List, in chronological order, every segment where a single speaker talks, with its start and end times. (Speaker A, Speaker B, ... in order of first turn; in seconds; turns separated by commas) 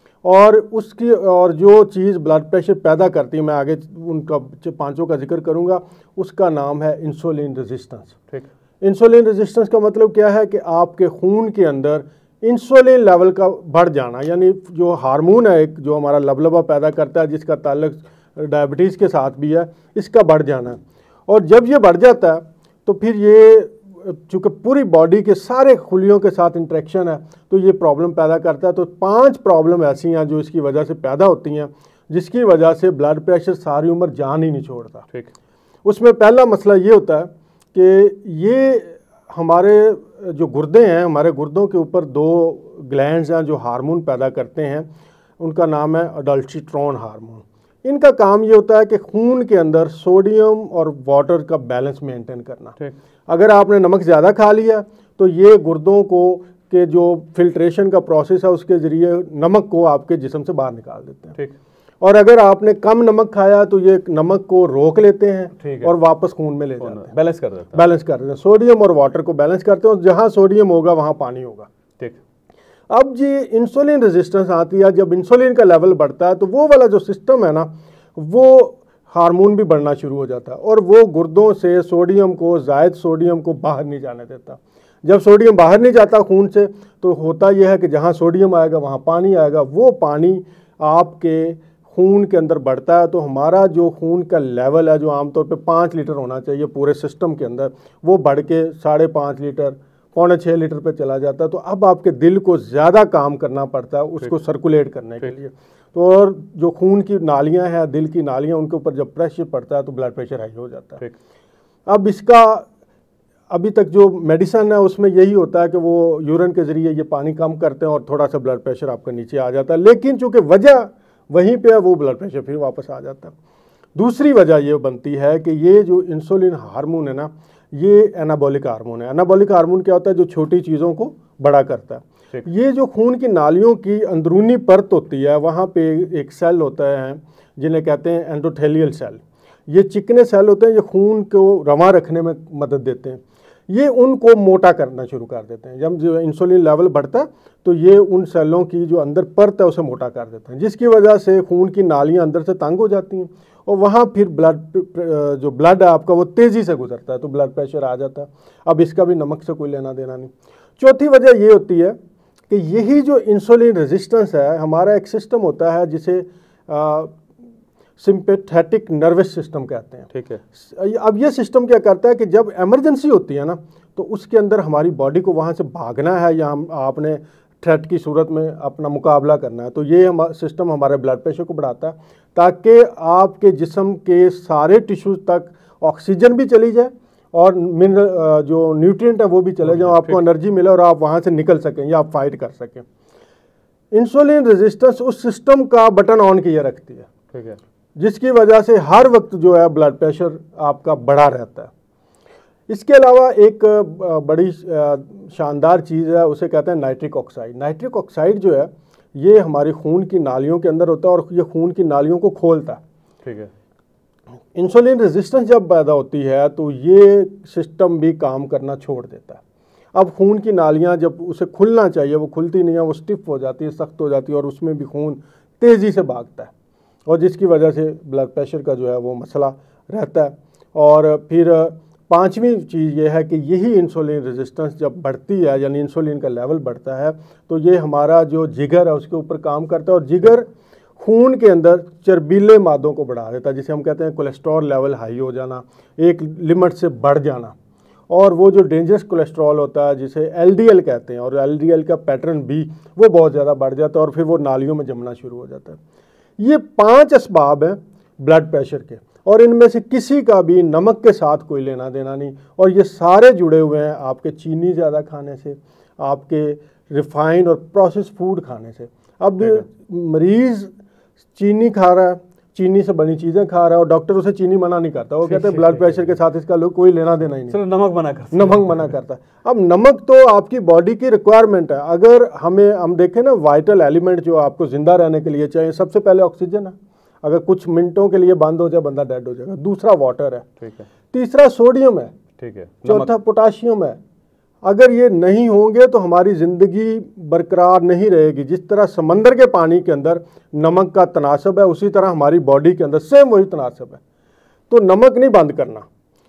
Speaker A: 0.2-8.2, Speaker A: 8.8-35.1, Speaker A: 35.8-44.9, Speaker A: 45.4-52.8, Speaker A: 53.3-61.4, Speaker A: 62.0-67.1, Speaker B: 65.6-65.9, Speaker B: 66.8-67.8, Speaker A: 67.7-71.7, Speaker A: 72.9-111.0, Speaker A: 111.9-112.7, Speaker A: 113.5-123.3, Speaker A: 123.9-162.0, Speaker A: 162.5-167.2, Speaker A: 168.0-192.8, Speaker B: 170.1-170.4, Speaker B: 189.6-190.2, Speaker A: 193.9-197.1, Speaker B: 197.3-197.6, Speaker A: 197.9-201.7, Speaker A: 202.7-212.8, Speaker B: 213.2-213.5, Speaker A: 214.5-219.4, Speaker A: 219.9-226.5, Speaker A: 227.1-240.5, Speaker A: 241.0-247.5, Speaker A: 248.1-255.8, Speaker A: 256.4-270.7, Speaker A: 271.4-277.6, Speaker B: 275.2-276.2, Speaker B: 277.5-278.9, Speaker A: 278.3-290.5, Speaker B: 290.6-290.9, Speaker A: 291.1-292.1, Speaker B: 292.4-293.1, Speaker A: 292.8-294.0, Speaker A: 294.6-304.0, Speaker A: 304.7-305.8